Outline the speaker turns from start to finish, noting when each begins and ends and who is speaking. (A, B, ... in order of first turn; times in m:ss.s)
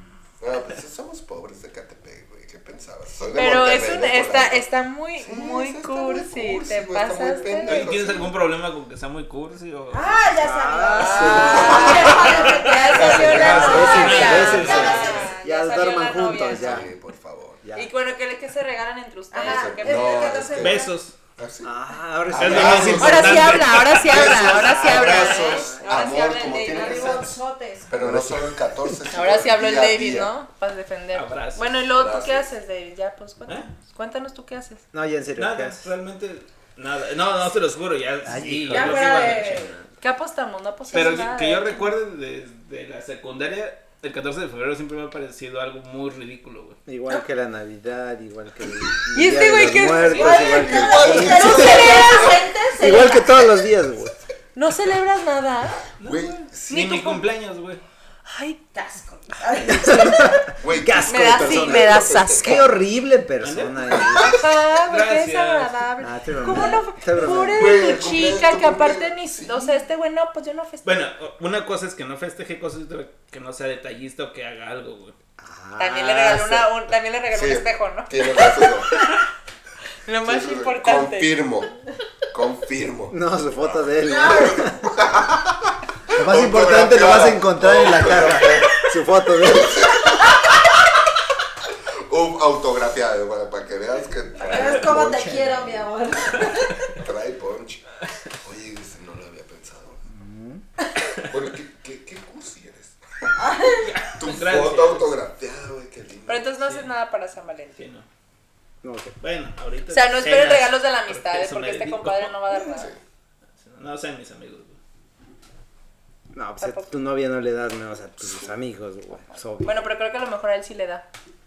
0:00.4-0:08.3 A
0:03.3-0:07.9 B
0:07.6-0:10.2 C
0:09.9-0:15.3 D
0:10.4-0:12.3 E
0:10.9-0:16.9 B
0:11.1-0:15.2 A
0:13.1-0:16.9 E
0:13.3-0:15.2 C
0:16.5-0:17.6 A
0:17.6-0:17.9 E
0:17.7-0:20.4 B
0:19.3-0:20.9 D
0:19.4-0:20.8 A
0:20.5-0:21.1 C
0:21.4-0:21.7 A
0:21.6-0:23.4 E
0:22.2-0:30.3 A
0:22.4-0:24.5 C
0:23.0-0:27.2 B
0:24.4-0:25.8 E
0:26.5-0:27.9 D
0:28.0-0:28.6 E
0:29.1-0:34.8 B
0:31.1-0:31.7 C
0:31.9-0:32.5 A
0:34.9-0:35.9 E
0:35.4-0:39.8 C
0:38.2-0:39.4 E
0:38.7-0:39.7 D
0:40.0-0:41.9 B
0:40.9-0:46.8 C
0:46.8-0:52.1 E
0:49.1-0:52.3 B
0:50.0-0:53.5 D
0:50.5-0:52.5 A
0:52.8-0:54.2 E
0:54.5-0:55.9 B
0:56.0-0:57.8 C
0:56.0-0:57.1 A
0:56.7-0:57.2 B
0:58.2-0:58.7 B
0:58.7-1:00.4 D
0:59.7-1:04.4 E
1:00.6-1:02.7 A
1:01.1-1:02.7 B
1:03.4-1:04.0 C
1:04.2-1:11.1 B
1:04.8-1:05.8 C
1:06.0-1:07.8 E
1:07.5-1:09.8 A
1:10.8-1:15.1 C
1:15.4-1:16.8 E
1:15.8-1:19.1 B
1:17.3-1:18.9 A
1:20.0-1:21.4 B
1:20.2-1:21.7 A
1:22.3-1:28.8 A
1:23.1-1:24.8 E
1:24.0-1:24.6 D
1:26.1-1:29.8 E
1:29.4-1:30.7 A
1:32.0-1:35.6 A
1:34.4-1:36.9 D
1:34.9-1:35.7 E
1:37.0-1:37.8 A
1:38.4-1:40.0 A
1:40.1-1:40.6 E
1:41.2-1:43.5 A
1:43.4-1:43.9 D
1:43.8-1:45.1 C
1:44.2-1:46.5 A
1:46.3-1:47.8 B
1:46.6-1:46.9 C
1:47.8-1:48.1 C
1:48.8-1:49.1 E
1:49.2-1:52.6 C
1:49.9-1:52.9 B
1:52.7-1:53.0 A
1:53.6-1:54.8 C
1:56.3-1:59.8 E
1:56.6-1:56.9 B
1:59.6-2:01.0 B